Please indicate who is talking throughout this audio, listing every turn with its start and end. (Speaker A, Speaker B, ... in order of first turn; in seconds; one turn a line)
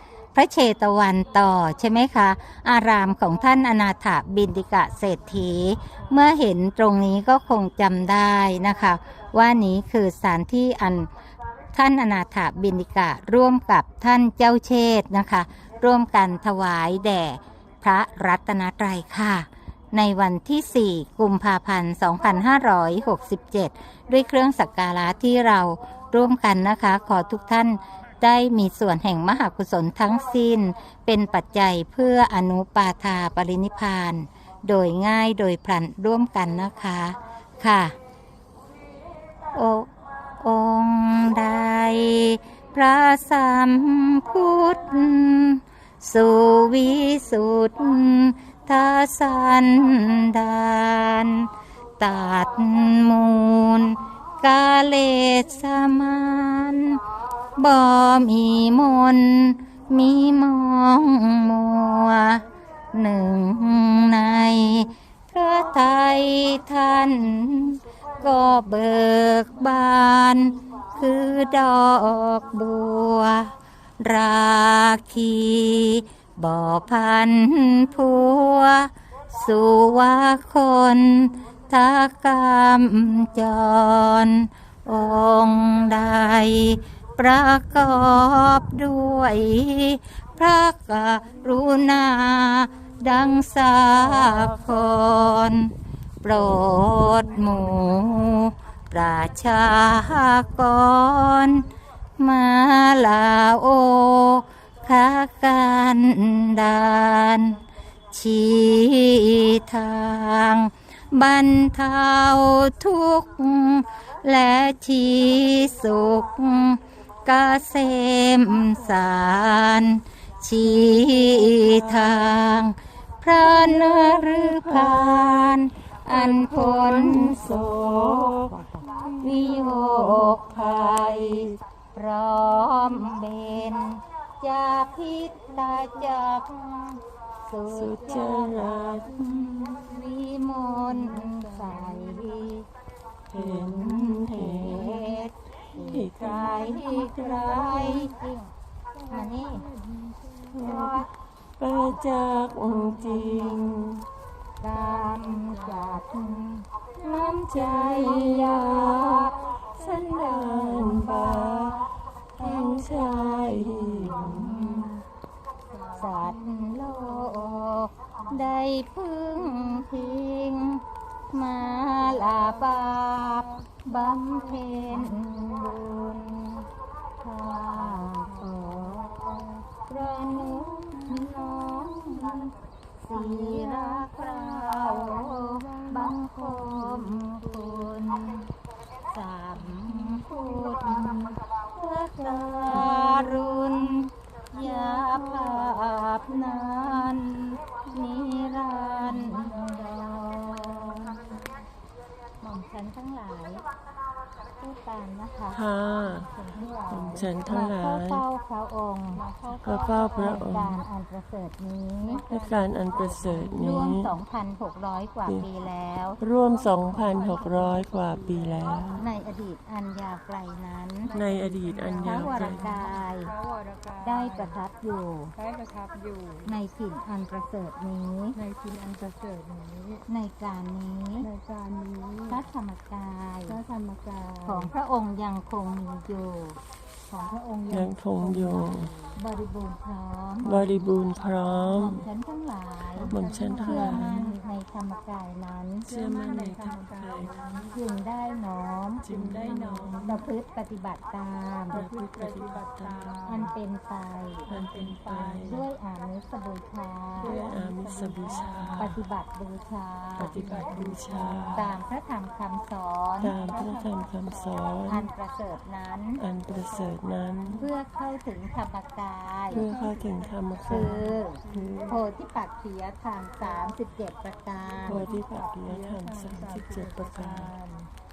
Speaker A: 0.3-11.1
Speaker A: 11.7-38.0
Speaker A: 39.5-57.0
Speaker A: 57.5-128.0
Speaker B: 121.3-122.3
Speaker B: 123.6-131.6
Speaker A: 128.9-142.7
Speaker B: 137.7-139.1
Speaker C: 138.2-142.4
Speaker B: 143.3-145.2
Speaker A: 143.3-148.5
Speaker B: 145.7-148.1
Speaker C: 149.0-150.6
Speaker A: 149.1-149.6
Speaker B: 150.5-154.0
Speaker A: 150.6-151.1
Speaker A: 153.0-153.6
Speaker A: 154.6-164.9
Speaker C: 154.7-156.0
Speaker B: 157.5-161.8
Speaker C: 159.5-160.2
Speaker B: 162.4-164.8
Speaker C: 162.4-164.9
Speaker C: 165.7-167.6
Speaker A: 165.9-176.7
Speaker C: 169.6-169.9
Speaker C: 171.7-175.3
Speaker A: 177.2-188.5
Speaker C: 177.4-179.6
Speaker C: 180.5-182.5
Speaker C: 183.1-188.1
Speaker A: 189.1-201.4
Speaker C: 189.7-191.3
Speaker C: 192.2-193.4
Speaker C: 194.6-197.1
Speaker C: 198.9-201.5
Speaker A: 202.4-203.6
Speaker A: 204.6-205.6
Speaker B: 205.5-208.2
Speaker C: 206.0-207.6
Speaker A: 207.5-209.2
Speaker C: 209.1-210.5
Speaker B: 209.5-210.8
Speaker A: 210.1-212.2
Speaker C: 212.0-213.6
Speaker B: 212.3-214.1
Speaker A: 213.5-216.2
Speaker B: 216.2-219.0
Speaker C: 216.5-219.1
Speaker A: 219.0-221.1
Speaker C: 221.0-224.6
Speaker B: 221.1-222.8
Speaker A: 222.0-223.3
Speaker A: 224.0-225.3
Speaker C: 225.3-226.5
Speaker A: 226.4-228.4
Speaker C: 228.3-230.1
Speaker A: 230.1-231.3
Speaker C: 231.2-232.4
Speaker A: 232.3-233.6
Speaker C: 233.5-234.7
Speaker A: 234.4-236.6
Speaker C: 237.1-239.2
Speaker B: 237.7-238.9
Speaker A: 239.2-240.6
Speaker C: 240.4-242.0
Speaker B: 240.4-242.1
Speaker A: 241.7-245.9
Speaker C: 243.0-244.3
Speaker B: 243.1-244.3
Speaker B: 245.8-247.3
Speaker C: 245.8-247.7
Speaker A: 247.7-249.3
Speaker B: 249.0-250.1
Speaker C: 249.1-250.2
Speaker A: 250.0-251.8
Speaker B: 251.7-253.3
Speaker C: 251.7-253.5
Speaker A: 253.2-254.5
Speaker C: 254.5-255.6
Speaker B: 254.5-255.6
Speaker A: 255.4-257.3
Speaker C: 257.2-259.0
Speaker B: 257.2-259.0
Speaker A: 258.8-260.4
Speaker B: 260.2-261.8
Speaker C: 260.3-261.6
Speaker A: 261.5-263.4
Speaker B: 263.2-265.1
Speaker C: 263.4-264.8
Speaker A: 264.9-266.2
Speaker B: 266.2-267.6
Speaker C: 266.5-266.9
Speaker A: 267.5-269.6
Speaker C: 269.5-272.0
Speaker B: 269.5-272.0
Speaker A: 270.7-275.1
Speaker B: 274.9-277.5
Speaker C: 274.9-277.9